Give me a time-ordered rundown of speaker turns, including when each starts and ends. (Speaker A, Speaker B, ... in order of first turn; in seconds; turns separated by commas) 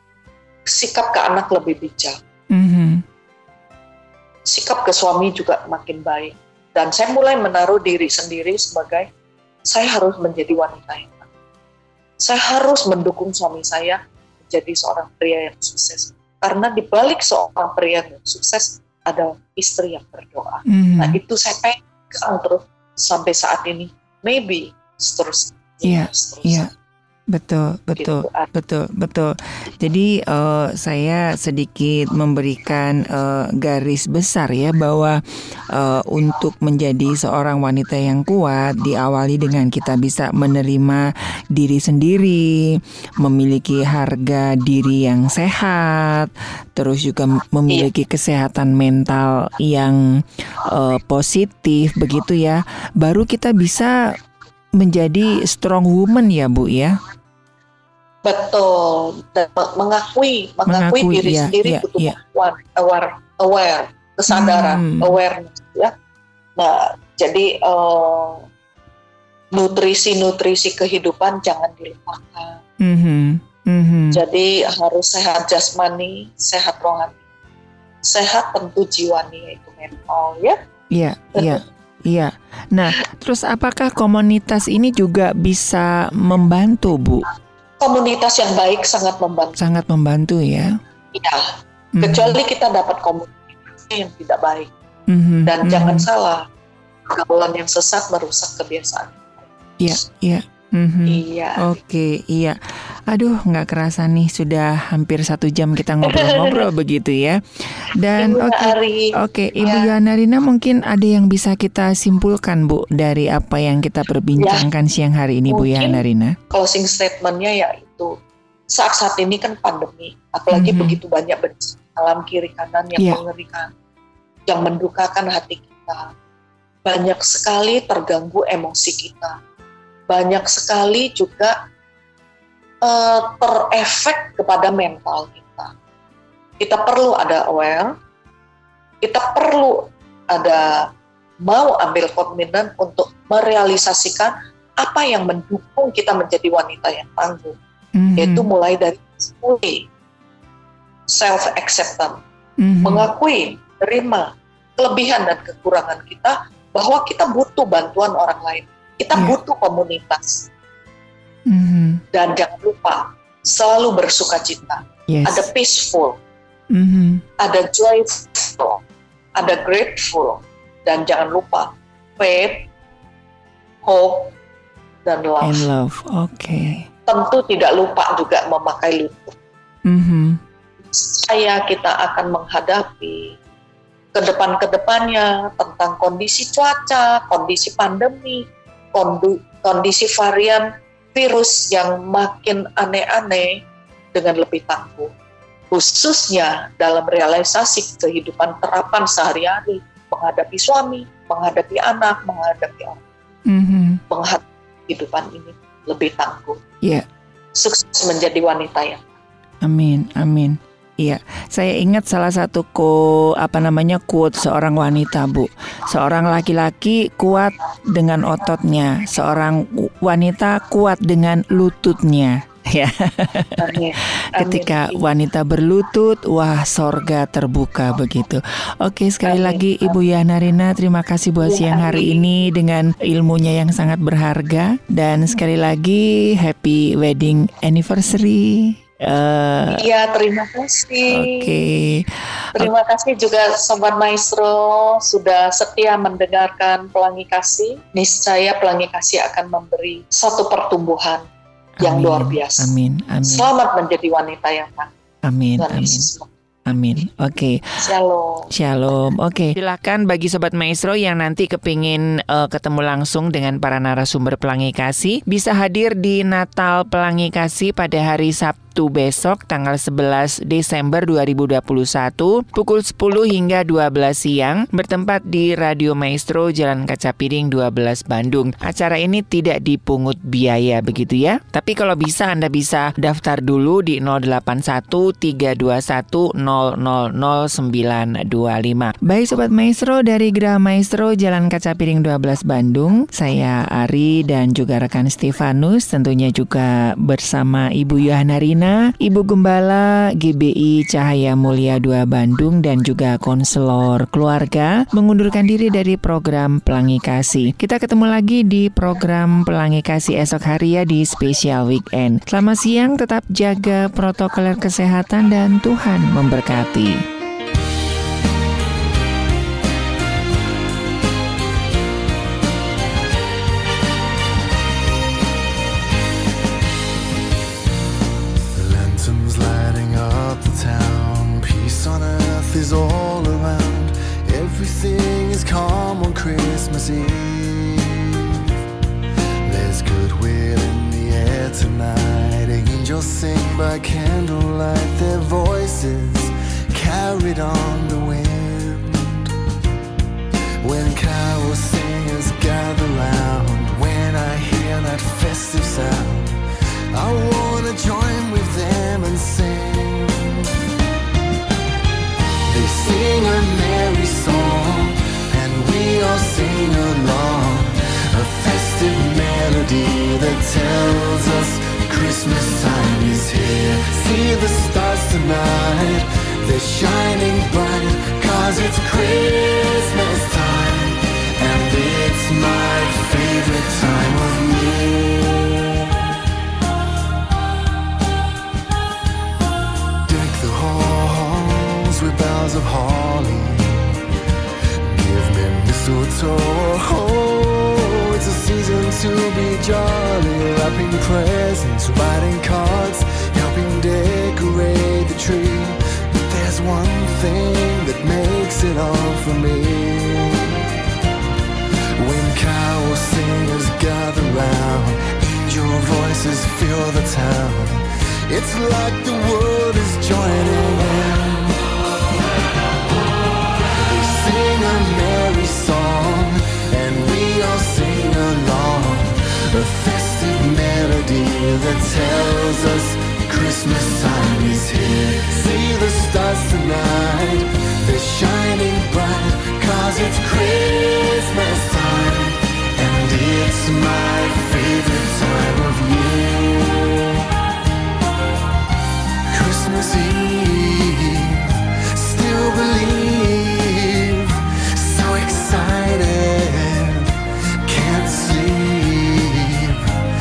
Speaker A: 0.7-2.2, Speaker B: 2.5-3.0, Speaker A: 4.5-9.1, Speaker A: 9.7-11.3, Speaker A: 12.2-26.7, Speaker B: 20.7-21.2, Speaker B: 25.8-26.7, Speaker B: 27.3-54.0, Speaker A: 28.0-28.5, Speaker B: 54.8-57.0, Speaker A: 58.2-65.9, Speaker B: 60.7-62.1, Speaker B: 64.3-65.2, Speaker A: 66.6-68.4, Speaker A: 69.5-72.6, Speaker B: 72.8-74.2, Speaker A: 74.1-77.2, Speaker A: 78.0-80.6, Speaker B: 80.9-87.3, Speaker A: 81.3-81.6, Speaker A: 87.8-89.8, Speaker B: 89.6-90.8, Speaker A: 91.1-94.7, Speaker B: 92.0-92.4, Speaker B: 95.1-96.0, Speaker A: 95.5-96.5, Speaker A: 97.1-99.5, Speaker B: 99.8-116.4, Speaker A: 101.0-101.7, Speaker A: 106.0-106.7, Speaker A: 108.2-109.9, Speaker A: 114.4-114.7, Speaker A: 115.5-118.2, Speaker A: 118.7-123.7, Speaker B: 120.5-121.0, Speaker A: 124.5-126.1, Speaker A: 126.8-129.4, Speaker A: 130.1-131.6, Speaker A: 132.8-135.7, Speaker A: 136.6-137.9, Speaker A: 139.0-140.9, Speaker A: 141.4-147.6, Speaker B: 147.9-148.4, Speaker A: 148.2-149.9, Speaker A: 151.1-152.2, Speaker B: 152.6-153.1, Speaker A: 152.8-160.5, Speaker B: 161.5-162.0, Speaker A: 162.1-166.2, Speaker B: 165.1-165.5, Speaker B: 166.7-167.2, Speaker A: 167.4-168.8, Speaker A: 169.3-172.7, Speaker A: 173.8-174.3, Speaker A: 175.1-175.7, Speaker B: 175.4-176.9, Speaker A: 177.1-179.4, Speaker B: 179.9-180.4, Speaker A: 180.9-183.4, Speaker A: 184.1-193.6, Speaker A: 194.1-195.1, Speaker A: 195.7-203.0, Speaker B: 203.5-204.0, Speaker A: 204.1-206.6, Speaker A: 207.6-209.1, Speaker B: 209.6-223.7, Speaker A: 223.6-225.1, Speaker B: 224.4-239.8, Speaker A: 229.2-230.0, Speaker A: 231.4-232.2, Speaker A: 239.7-241.5, Speaker B: 241.1-242.7, Speaker A: 242.6-251.3, Speaker B: 251.8-253.5, Speaker A: 251.8-254.9, Speaker B: 255.2-256.1, Speaker A: 255.6-256.3, Speaker B: 256.7-257.6, Speaker A: 257.8-258.5, Speaker B: 258.5-317.0, Speaker C: 328.6-338.4, Speaker C: 339.4-349.2, Speaker C: 350.6-356.4, Speaker C: 356.9-360.5, Speaker C: 362.5-385.8, Speaker C: 390.1-394.0, Speaker C: 394.9-410.6, Speaker C: 412.0-421.6, Speaker C: 423.8-447.2, Speaker C: 449.3-457.1, Speaker C: 457.6-459.9